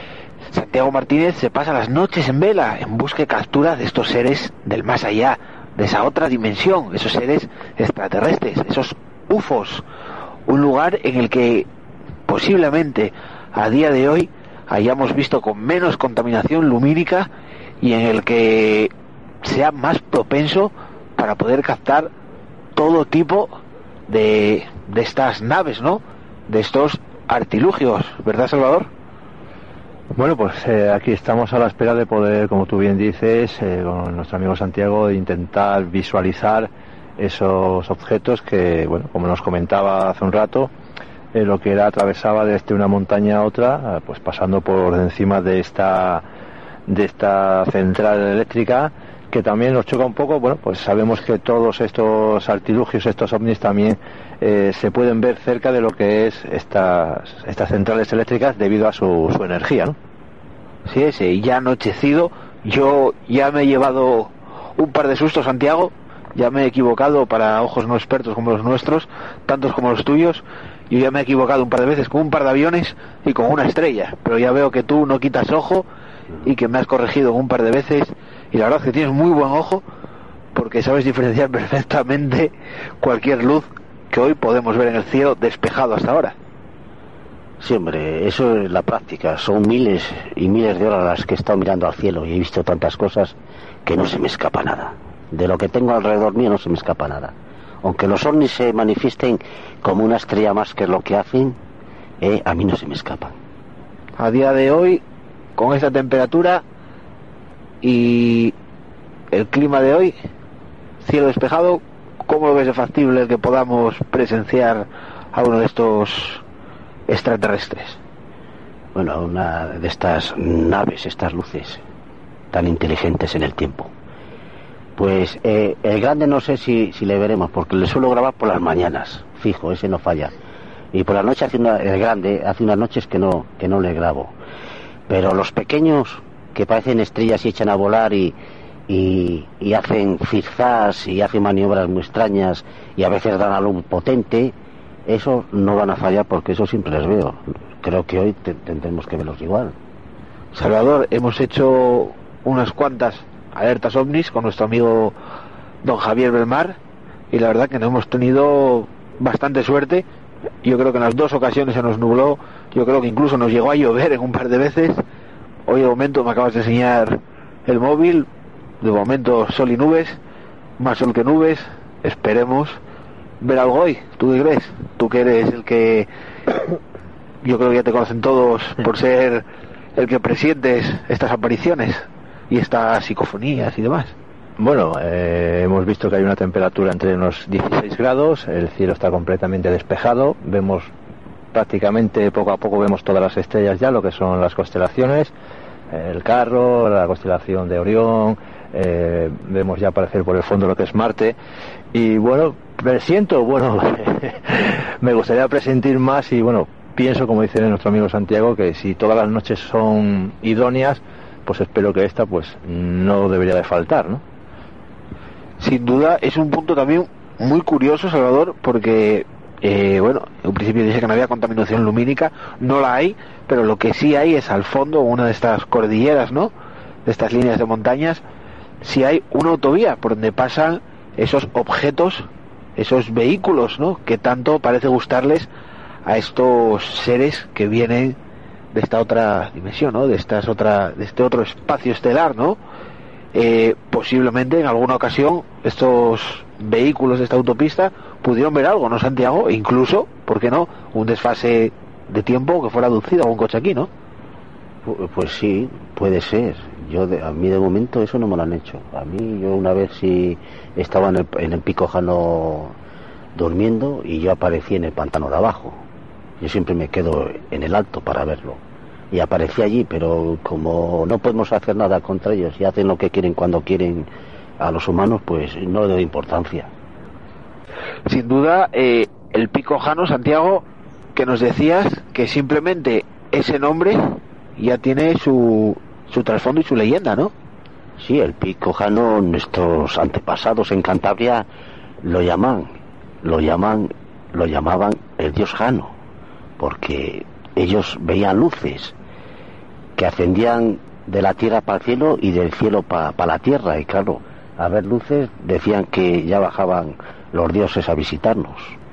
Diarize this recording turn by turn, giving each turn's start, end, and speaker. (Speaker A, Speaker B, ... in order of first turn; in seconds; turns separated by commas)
Speaker A: 0.5-9.8, Speaker A: 10.5-11.7, Speaker A: 12.3-17.3, Speaker A: 17.8-18.9, Speaker A: 19.4-22.1, Speaker A: 22.8-23.6, Speaker A: 24.1-28.9, Speaker B: 30.1-40.7, Speaker B: 41.3-46.2, Speaker B: 46.9-60.0, Speaker A: 60.9-75.8, Speaker A: 76.4-79.8, Speaker A: 80.5-86.3, Speaker C: 87.6-101.6, Speaker C: 102.2-103.3, Speaker A: 104.2-105.0, Speaker A: 105.6-106.6, Speaker A: 107.8-108.5, Speaker A: 109.3-110.1, Speaker A: 111.0-116.4, Speaker A: 117.1-118.0, Speaker C: 118.9-121.8, Speaker C: 122.5-123.9, Speaker C: 125.0-130.3, Speaker C: 130.9-134.3, Speaker C: 135.1-138.3, Speaker C: 138.9-144.5, Speaker C: 145.1-149.8, Speaker A: 150.5-155.1, Speaker A: 155.8-156.8, Speaker A: 157.3-160.1, Speaker A: 160.6-165.0, Speaker A: 165.7-168.3, Speaker A: 168.8-170.2, Speaker A: 170.8-172.8, Speaker A: 173.4-176.1, Speaker A: 177.4-179.4, Speaker A: 179.9-184.1, Speaker B: 184.6-190.9, Speaker B: 191.5-195.3, Speaker B: 195.9-201.4, Speaker B: 201.9-214.2, Speaker A: 215.6-226.5, Speaker A: 227.1-228.2, Speaker A: 228.8-235.5, Speaker A: 236.1-238.2, Speaker A: 238.7-242.6, Speaker A: 243.3-253.9, Speaker C: 254.8-262.8, Speaker C: 263.3-265.8, Speaker C: 266.4-276.7, Speaker A: 278.1-287.3, Speaker C: 288.0-291.5, Speaker C: 292.0-295.9, Speaker C: 296.6-298.9, Speaker C: 300.0-308.8